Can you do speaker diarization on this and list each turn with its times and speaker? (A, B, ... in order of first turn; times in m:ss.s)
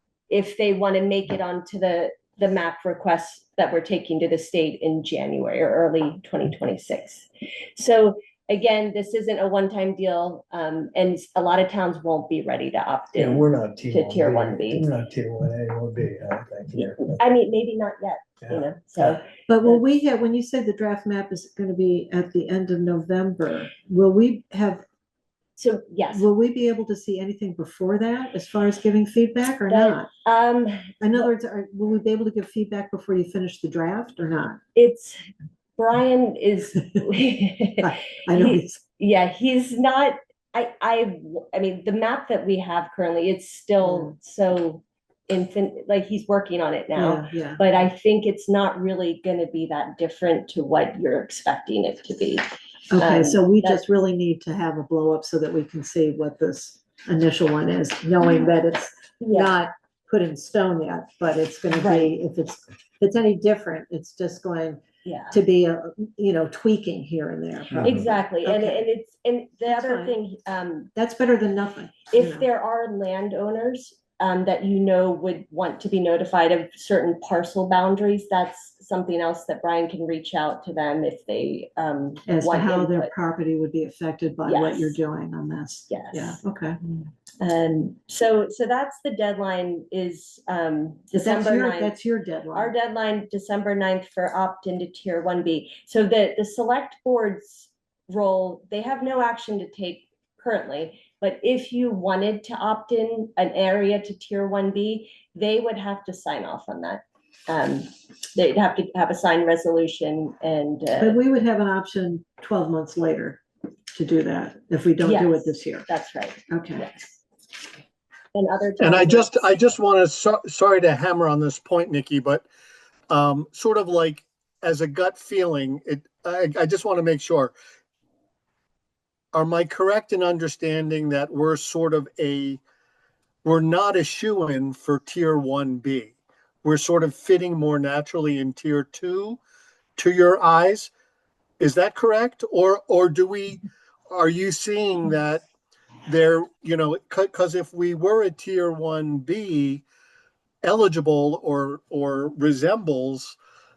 0:00.3-0:14.9 A
0:13.2-0:17.2 B
0:17.0-0:19.8 A
0:18.4-0:19.2 B
0:19.5-0:24.8 C
0:25.6-0:26.3 A
0:26.1-0:30.1 C
0:29.7-0:31.0 A
0:31.0-0:34.6 C
0:34.8-0:35.2 A
0:35.8-0:52.4 A
0:37.8-0:38.8 C
0:43.8-0:44.1 C
0:47.0-0:47.6 C
0:52.9-1:07.9 C
0:53.0-0:53.8 A
0:59.2-0:59.6 A
1:01.8-1:02.2 A
1:05.0-1:05.4 A
1:07.8-1:10.9 A
1:08.4-1:08.8 C
1:09.7-1:10.2 C
1:11.0-1:12.5 C
1:12.1-1:23.1 A
1:22.3-1:26.8 C
1:24.5-1:25.0 A
1:25.9-1:26.4 A
1:27.4-1:32.0 A
1:31.1-1:32.7 C
1:32.5-1:51.2 A
1:51.0-1:53.4 C
1:53.9-1:55.8 C
1:55.0-1:57.2 A
1:56.5-1:56.8 C
1:58.3-1:59.5 A
1:58.8-2:02.4 D
2:03.1-2:07.6 D
2:09.3-2:12.6 D
2:13.4-2:19.4 D
2:20.0-2:20.9 D
2:21.6-2:25.4 D
2:26.1-2:29.9 D
2:30.6-2:33.4 D